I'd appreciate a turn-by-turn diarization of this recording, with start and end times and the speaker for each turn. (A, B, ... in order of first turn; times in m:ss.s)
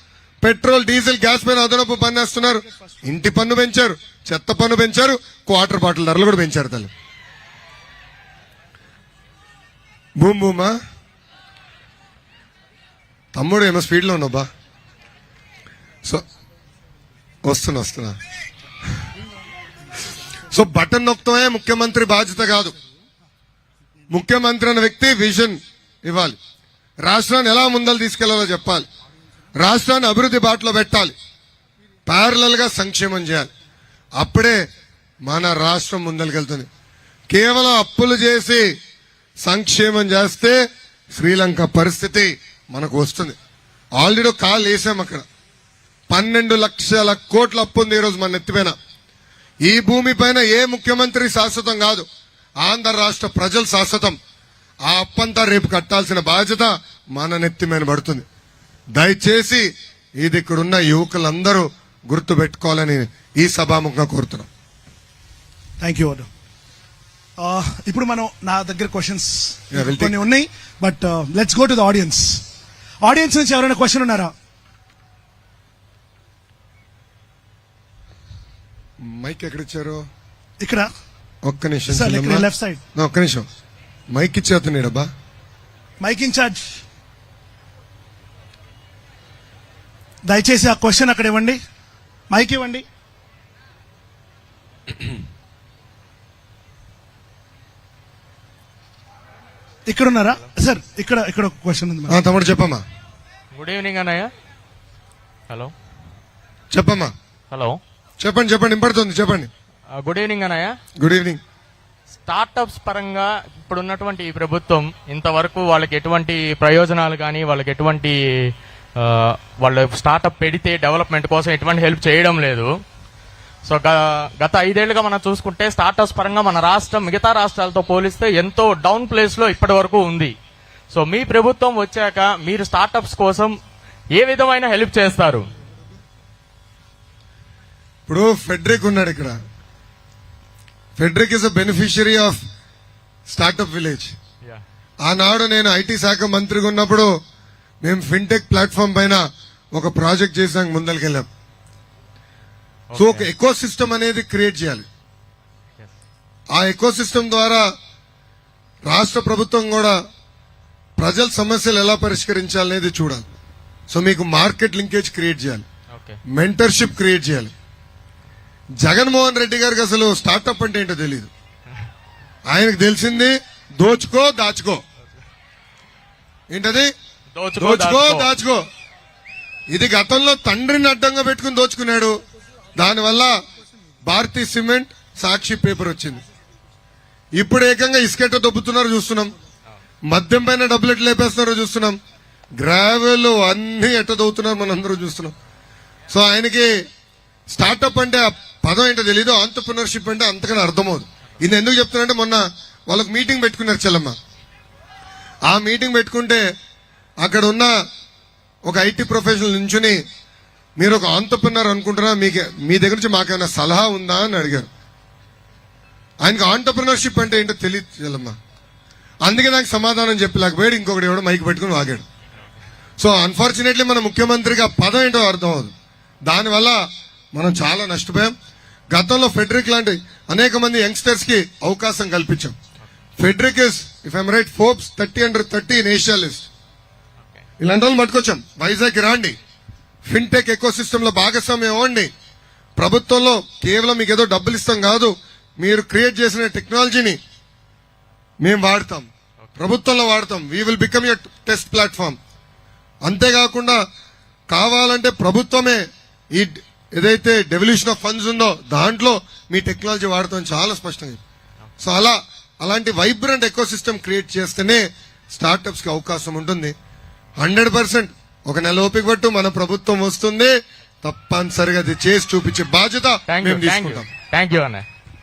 0:00.4-0:06.9 A
0:10.2-0:10.8 A
0:13.3-0:14.5 A
0:17.4-0:18.2 A
0:20.5-0:22.8 A
0:24.1-0:26.4 A
0:27.0-0:28.9 A
0:29.6-0:31.1 A
0:32.0-0:33.5 A
0:34.2-0:34.6 A
0:35.2-0:36.7 A
0:37.3-0:38.7 A
0:39.4-0:40.6 A
0:41.1-0:43.4 A
0:44.0-0:45.2 A
0:46.1-0:48.8 A
0:49.6-0:52.0 A
0:52.6-0:54.2 A
0:54.8-0:58.2 A
0:58.9-0:59.7 A
1:00.2-1:04.5 A
1:05.8-1:06.3 B
1:07.4-1:12.4 B
1:09.7-1:10.2 A
1:13.0-1:14.3 B
1:19.0-1:20.0 A
1:20.6-1:20.9 B
1:21.4-1:23.5 A
1:21.9-1:22.8 B
1:24.1-1:25.1 A
1:26.0-1:26.8 B
1:30.2-1:31.6 B
1:32.3-1:32.8 B
1:39.9-1:42.2 B
1:42.1-1:42.8 A
1:43.5-1:44.3 C
1:46.7-1:47.1 A
1:47.5-1:47.8 C
1:48.2-1:49.5 A
1:50.0-1:50.7 C
1:51.0-1:51.4 A
1:52.2-2:02.7 C
2:03.6-2:10.3 C
2:10.9-2:13.6 C
2:14.1-2:15.4 C
2:18.1-2:19.4 A
2:21.0-2:22.4 A
2:23.3-2:24.1 A
2:25.0-2:27.1 A
2:27.8-2:29.2 A
2:29.7-2:31.3 A
2:32.9-2:33.3 C
2:33.0-2:34.8 A
2:36.5-2:37.7 A
2:38.8-2:40.0 A
2:41.0-2:43.2 A
2:43.9-2:45.6 A
2:45.9-2:46.2 C
2:46.3-2:47.5 A
2:48.8-2:51.3 A
2:52.5-2:54.8 A
2:56.5-2:56.9 A
2:57.3-2:58.3 C
2:57.6-2:58.6 A
2:59.7-3:02.2 A
3:02.8-3:03.4 A
3:04.0-3:06.2 A
3:07.4-3:09.3 A
3:10.1-3:12.0 A
3:12.6-3:15.3 A
3:16.1-3:16.7 A
3:17.5-3:24.2 A
3:25.5-3:26.4 A
3:27.2-3:27.7 A
3:28.6-3:30.0 A
3:30.8-3:34.7 A
3:36.2-3:38.4 A
3:39.2-3:42.0 A
3:43.0-3:45.7 A
3:46.2-3:46.8 A
3:47.3-3:48.3 A
3:48.9-3:52.5 A
3:53.2-3:56.5 A
3:57.6-3:59.4 A
4:00.1-4:02.1 A
4:02.8-4:07.2 A
4:08.4-4:12.2 A
4:13.0-4:13.8 A
4:14.5-4:21.2 A
4:21.8-4:26.7 A
4:27.4-4:34.1 A
4:33.3-4:34.8 C